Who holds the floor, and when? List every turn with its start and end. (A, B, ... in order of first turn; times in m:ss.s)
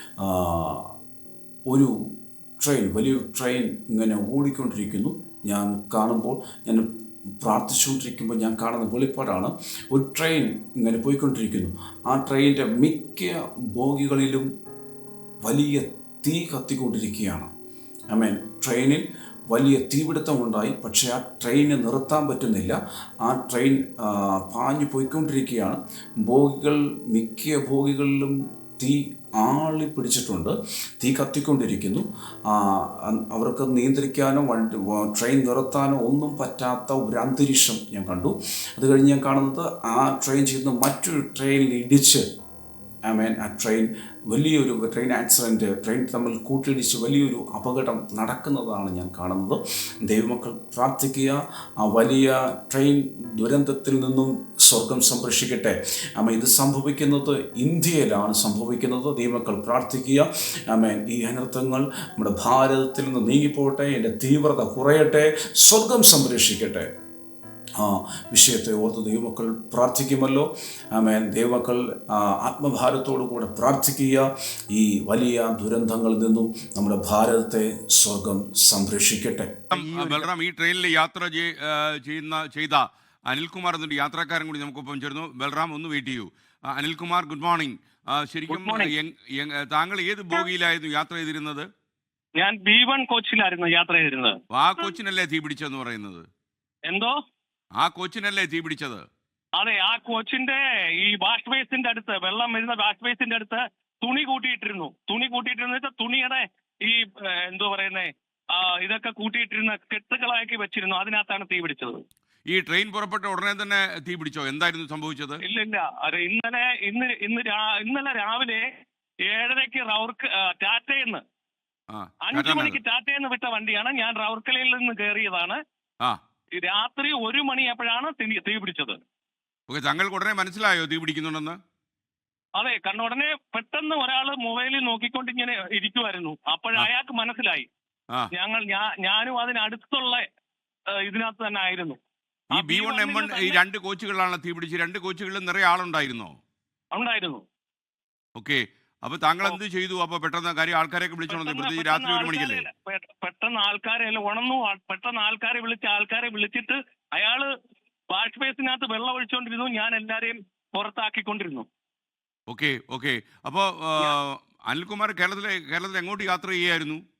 0:00.2-0:00.9 A
0:01.7-0:06.9 A
0:07.4-0:14.5 A
0:15.4-0:17.5 A
0:18.1-0:42.2 A
0:43.0-1:06.9 A
1:07.8-1:19.6 A
1:19.7-1:31.7 B
1:19.7-1:20.2 C
1:28.5-1:28.9 C
1:32.4-1:34.4 C
1:34.5-1:36.2 B
1:36.9-1:37.1 C
1:37.8-1:39.0 B
1:39.6-1:52.0 C
1:52.5-1:55.4 B
1:55.4-1:58.7 C
1:59.3-2:01.2 C
2:01.9-2:02.8 B
2:02.2-2:05.6 C
2:06.6-2:09.0 C
2:09.7-2:11.6 B
2:12.6-2:17.6 C
2:18.3-2:20.2 C
2:21.0-2:22.0 C
2:22.5-2:23.6 C
2:22.5-2:26.4 B
2:26.9-2:27.4 C
2:28.4-2:32.6 B
2:31.3-2:37.5 C
2:38.1-2:41.7 C
2:42.5-2:47.0 B